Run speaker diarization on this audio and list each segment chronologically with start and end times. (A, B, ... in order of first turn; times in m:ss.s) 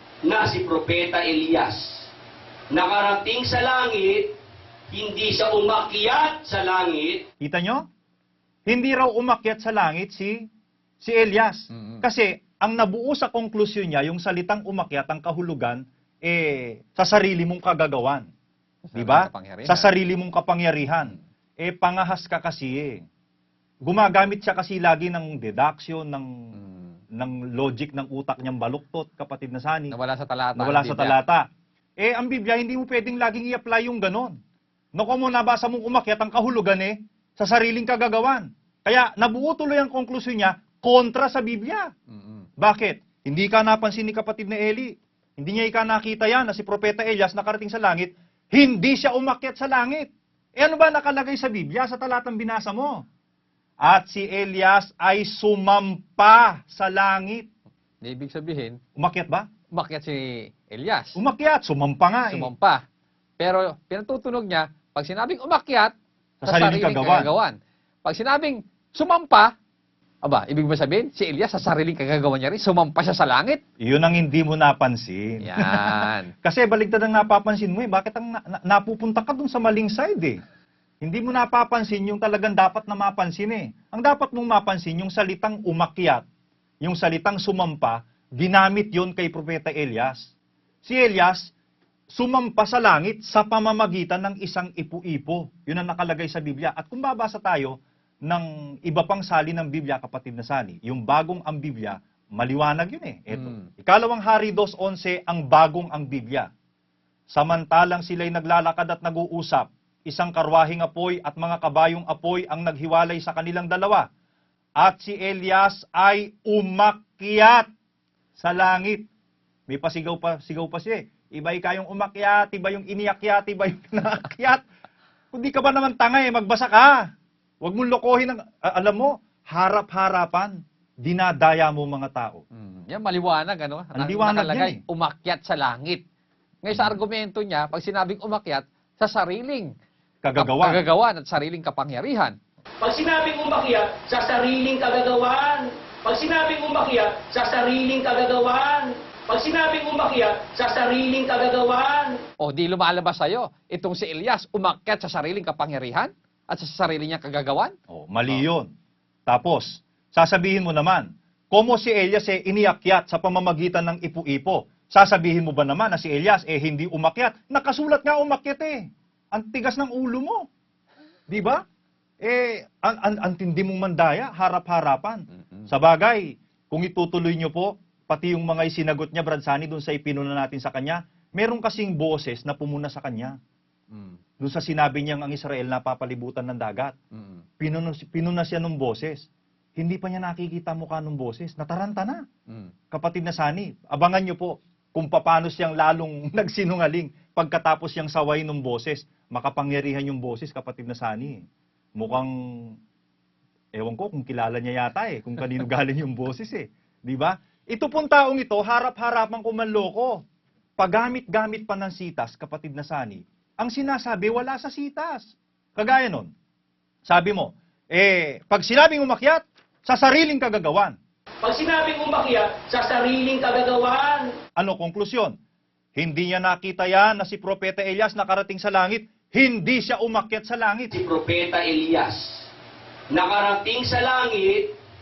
0:00.2-0:02.1 A
0:02.7-0:04.3 A
0:04.9-0:07.2 A
0:07.4-0:07.8 B
0:08.7-0:10.4 B
0:11.0-0:18.3 B
0:11.7-0:12.0 C
0:18.9-0:19.9 C
0:18.9-0:23.0 B
0:23.8-0:26.5 B
0:26.6-0:27.0 C
0:27.2-0:29.9 B
0:29.9-0:31.2 C
0:30.6-0:31.5 B
0:32.0-0:34.4 B
0:35.0-0:41.9 B
0:42.1-0:42.5 C
0:42.6-0:53.0 B
0:53.8-0:57.5 B
0:58.0-0:58.8 C
0:59.0-0:59.5 B
0:59.7-1:01.2 C
1:01.1-1:02.5 B
1:02.3-1:02.8 C
1:03.4-1:05.9 C
1:06.4-1:07.3 B
1:06.4-1:09.5 C
1:10.2-1:13.6 C
1:13.8-1:20.4 B
1:15.4-1:16.3 C
1:21.0-1:26.2 B
1:26.8-1:30.3 B
1:30.8-1:31.5 B
1:32.1-1:46.5 B
1:43.3-1:43.6 C
1:47.3-1:54.0 B
1:54.8-1:57.7 B
1:58.4-1:59.1 B
1:59.7-2:04.6 B
2:05.3-2:07.1 B
2:07.6-2:12.4 B
2:12.5-2:16.0 C
2:13.9-2:14.8 B
2:16.6-2:19.7 C
2:20.2-2:20.8 B
2:20.4-2:22.4 C
2:22.8-2:32.2 A
2:32.4-2:37.7 C
2:37.9-2:38.7 B
2:39.3-2:50.4 B
2:51.3-2:51.6 B
2:52.2-3:03.4 B
2:55.3-2:55.7 C
3:03.9-3:04.2 C
3:04.4-3:06.9 B
3:07.1-3:07.4 C
3:07.6-3:09.2 B
3:09.8-3:12.2 B
3:12.9-3:21.4 B
3:22.0-3:22.8 B
3:23.7-3:30.2 B
3:30.8-3:36.3 B
3:37.1-3:41.0 B
3:41.4-3:44.3 A
3:44.6-3:45.3 B
3:46.0-3:50.9 B
3:50.9-3:52.5 A
3:53.1-3:54.7 A